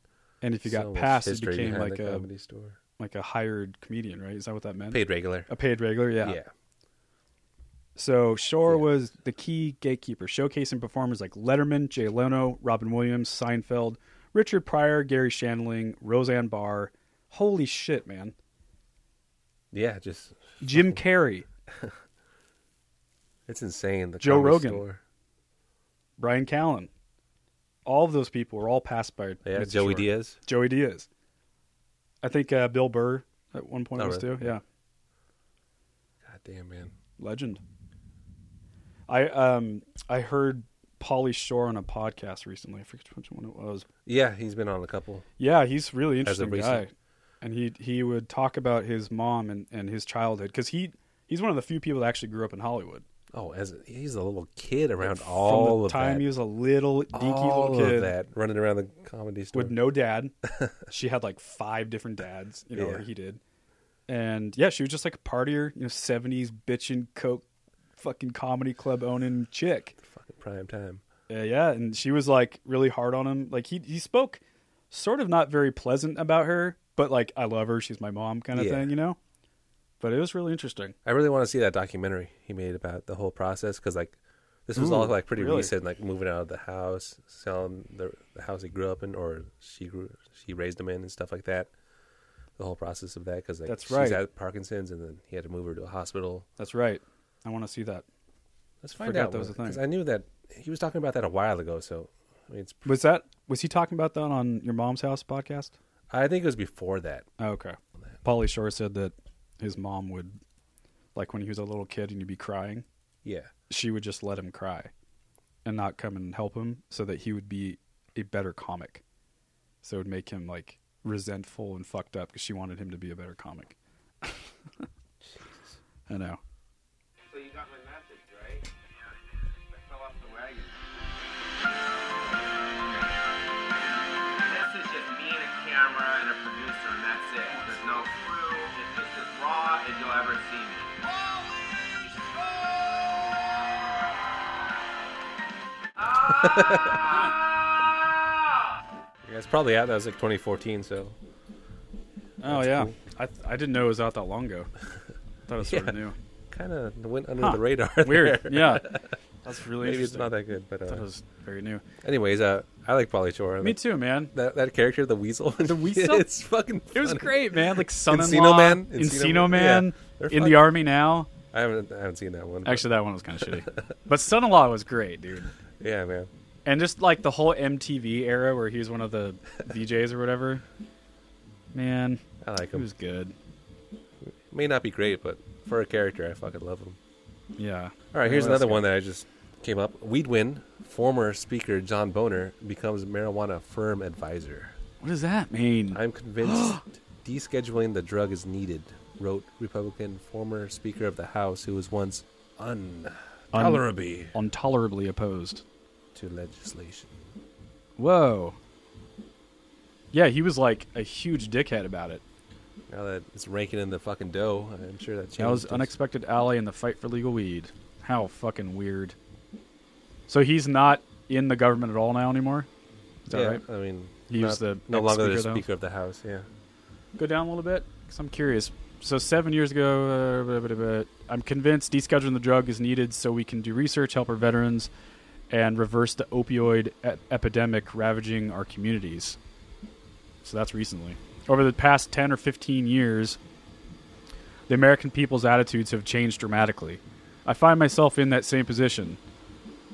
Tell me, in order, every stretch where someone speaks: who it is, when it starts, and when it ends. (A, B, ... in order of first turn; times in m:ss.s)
0:00.4-0:02.3 A
0:00.6-0:02.8 B
0:03.0-0:06.4 A
0:04.9-0:05.5 B
0:06.2-0:06.5 B
0:08.0-0:18.3 A
0:19.7-0:21.0 B
0:20.6-0:21.5 A
0:23.5-0:25.0 B
0:24.2-0:24.8 A
0:26.2-0:26.9 A
0:27.8-0:31.1 A
0:29.4-0:30.4 B
0:32.2-0:34.6 A
0:34.0-0:34.6 B
0:36.2-0:36.9 B
0:37.2-0:37.6 A
0:39.1-0:43.8 A
0:44.0-0:45.2 B
0:45.4-0:53.0 A
0:46.2-0:46.8 B
0:53.3-0:56.3 B
0:55.0-0:58.1 A
0:57.1-0:59.8 B
0:59.5-1:00.3 A
1:00.4-1:00.7 B
1:00.9-1:03.4 A
1:02.7-1:03.0 B
1:04.1-1:07.4 A
1:08.0-1:09.9 A
1:10.0-1:11.0 B
1:11.3-1:19.2 A
1:18.5-1:18.9 B
1:20.0-1:20.9 A
1:21.0-1:31.7 B
1:24.8-1:25.7 A
1:32.6-1:36.4 B
1:33.7-1:34.2 A
1:36.6-1:38.0 A
1:38.8-1:43.0 B
1:39.0-1:39.8 A
1:42.8-1:45.7 A
1:46.1-1:47.3 B
1:47.4-1:50.4 A
1:51.1-1:52.8 A
1:53.2-1:53.5 B
1:53.7-1:54.9 A
1:55.6-1:59.0 A
1:59.8-2:04.3 A
2:05.2-2:05.8 B
2:06.1-2:06.4 A
2:07.3-2:10.8 C
2:12.0-2:13.1 C
2:14.4-2:20.9 C
2:26.0-2:27.4 C
2:26.2-2:27.3 B
2:29.2-2:31.2 B
2:32.4-2:34.7 A
2:32.4-2:33.0 B
2:35.5-2:36.1 A
2:35.6-2:36.0 B
2:36.5-2:39.1 B
2:37.4-2:38.9 A
2:39.4-2:40.3 A
2:39.8-2:41.0 B
2:40.8-2:41.8 A
2:42.0-2:50.8 B
2:43.6-2:44.3 A
2:45.6-2:46.2 A
2:46.9-2:51.3 A
2:51.5-2:52.9 B
2:52.6-2:55.5 A
2:53.4-2:53.7 B
2:55.8-2:56.3 B
2:56.6-3:00.6 A
3:01.7-3:02.2 A
3:02.4-3:02.9 B
3:02.7-3:03.3 A
3:04.2-3:07.0 B
3:07.6-3:08.8 A
3:08.1-3:14.8 B
3:15.0-3:16.8 A
3:15.9-3:24.3 B
3:23.5-3:25.6 A
3:26.1-3:27.3 B
3:28.0-3:28.6 A
3:30.1-3:32.2 A
3:32.9-3:35.9 B
3:35.4-3:39.1 A
3:40.3-3:42.7 A
3:43.3-3:43.6 A
3:43.3-3:46.5 B
3:44.3-3:45.6 A
3:47.2-3:54.9 A
3:55.5-3:59.4 A
4:00.4-4:03.4 A
4:04.7-4:09.2 A